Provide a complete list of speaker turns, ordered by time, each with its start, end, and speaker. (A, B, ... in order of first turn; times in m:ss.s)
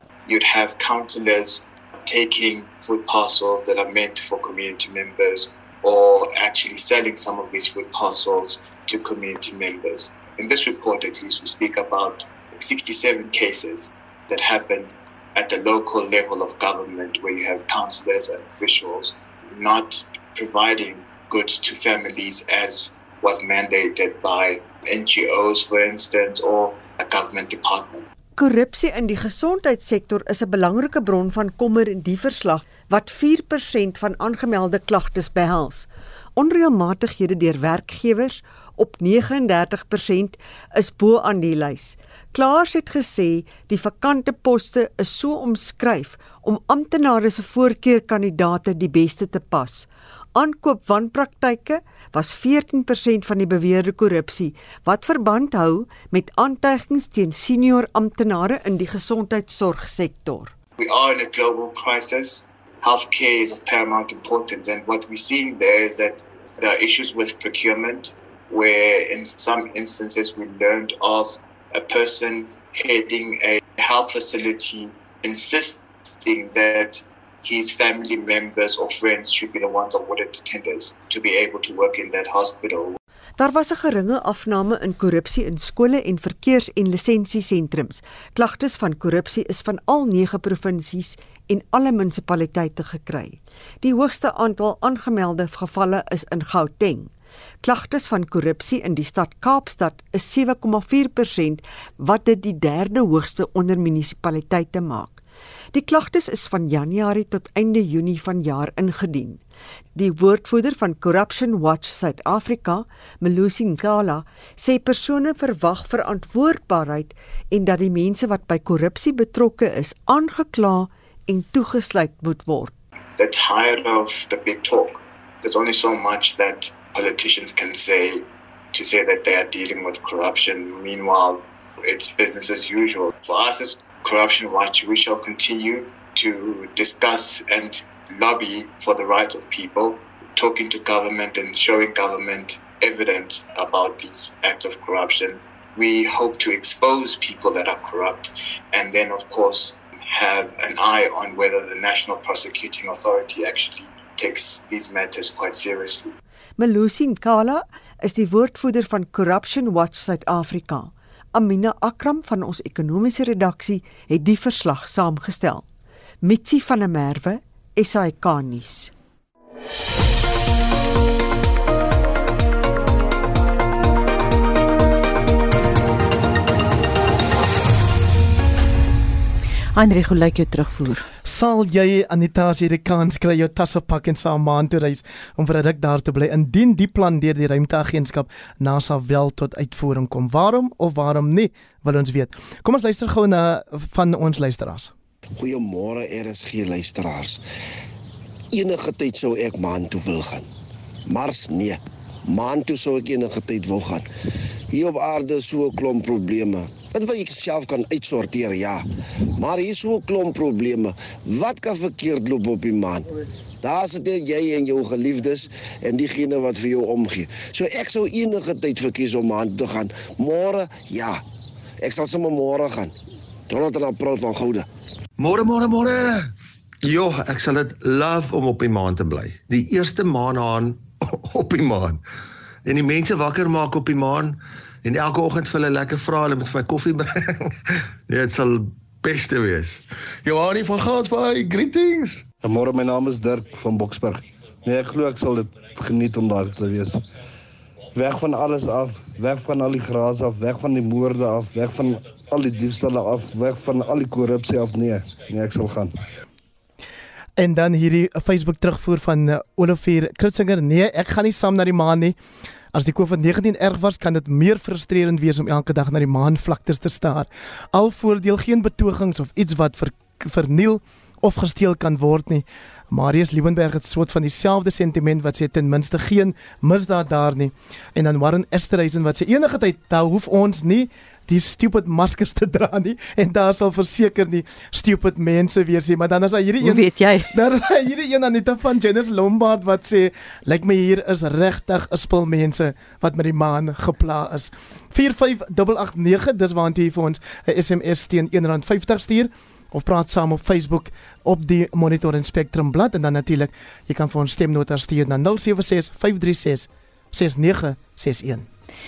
0:00.3-0:28.0 A
0:28.4-1:00.5 B
1:00.8-1:23.0 A
1:23.4-1:37.1 B
1:37.6-1:45.2 B
1:45.7-1:49.4 B
1:50.0-2:02.7 B
2:03.2-2:36.2 A
2:36.6-2:45.6 B
2:46.2-2:48.9 B
2:59.8-3:01.1 C
3:01.2-3:14.9 D
3:15.4-3:17.4 E
3:18.5-3:20.5 E
3:21.1-3:24.1 E
3:24.7-3:28.8 E
3:29.4-3:33.1 E
3:33.6-3:41.2 E
3:41.8-3:43.0 E
3:43.5-3:44.7 E
3:45.2-3:52.0 F
3:52.6-3:57.6 F
3:58.1-4:02.2 F
4:02.4-4:07.0 G
4:07.9-4:15.9 G
4:17.4-4:22.2 D
4:22.7-5:08.5 D
4:46.6-4:47.4 C